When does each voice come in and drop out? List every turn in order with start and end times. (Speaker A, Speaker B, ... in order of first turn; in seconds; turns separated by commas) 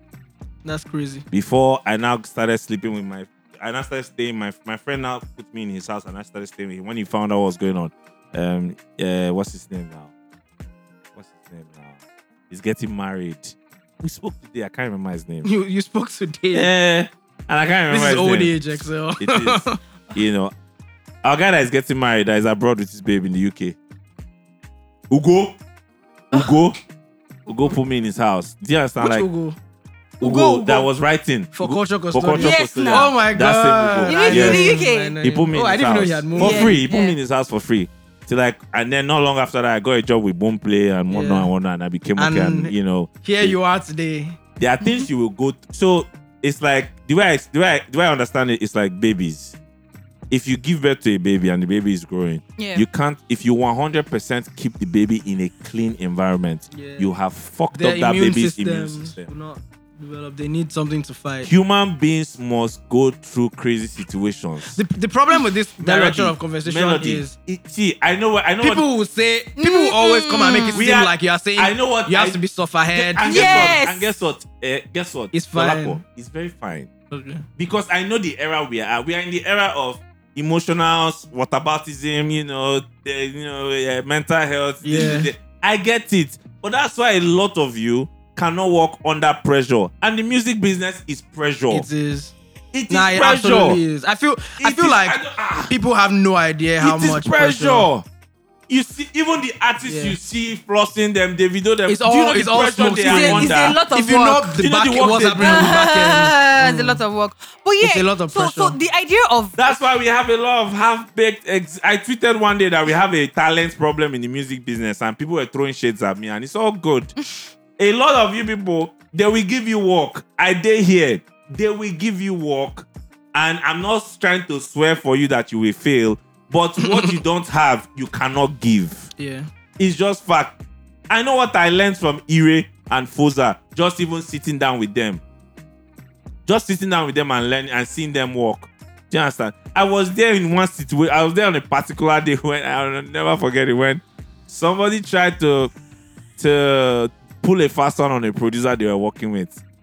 Speaker A: 0.6-1.2, Speaker B: 1.3-10.1, Speaker B: 11.2-12.0, Speaker B: 12.5-15.5, Speaker A: 15.4-16.7, Speaker B: 16.5-20.5, Speaker A: 17.9-19.8, Speaker B: 21.2-23.8, Speaker B: 25.1-25.6, Speaker B: 26.3-26.8, Speaker B: 27.5-29.3, Speaker A: 29.0-29.6, Speaker C: 30.2-30.9, Speaker B: 30.2-43.6, Speaker A: 31.5-36.8, Speaker C: 32.4-33.1, Speaker C: 34.1-35.2, Speaker C: 36.4-37.2, Speaker A: 41.1-41.5, Speaker A: 42.2-44.4, Speaker B: 44.6-49.6, Speaker B: 50.3-59.3, Speaker C: 52.6-52.8, Speaker A: 56.7-57.1, Speaker A: 57.7-61.5, Speaker B: 61.4-64.8, Speaker A: 64.7-67.3, Speaker B: 65.8-68.8, Speaker A: 68.6-73.8, Speaker C: 69.6-70.8, Speaker B: 70.7-72.4, Speaker B: 72.9-76.9, Speaker C: 73.2-74.1, Speaker A: 75.3-76.0, Speaker A: 77.1-77.5, Speaker B: 77.6-91.9, Speaker A: 84.8-85.3, Speaker A: 91.7-92.3, Speaker B: 92.7-93.8, Speaker A: 92.9-97.9, Speaker B: 94.6-95.7, Speaker B: 96.8-98.0, Speaker B: 98.7-103.8, Speaker A: 99.8-100.2, Speaker A: 101.9-107.0, Speaker C: 103.0-104.6, Speaker B: 104.6-105.8, Speaker C: 105.4-109.7, Speaker A: 107.8-108.8, Speaker B: 109.6-117.1, Speaker B: 117.8-129.1, Speaker A: 129.2-129.5, Speaker B: 129.8-130.5, Speaker B: 131.1-135.2, Speaker B: 136.5-145.7, Speaker B: 146.4-149.6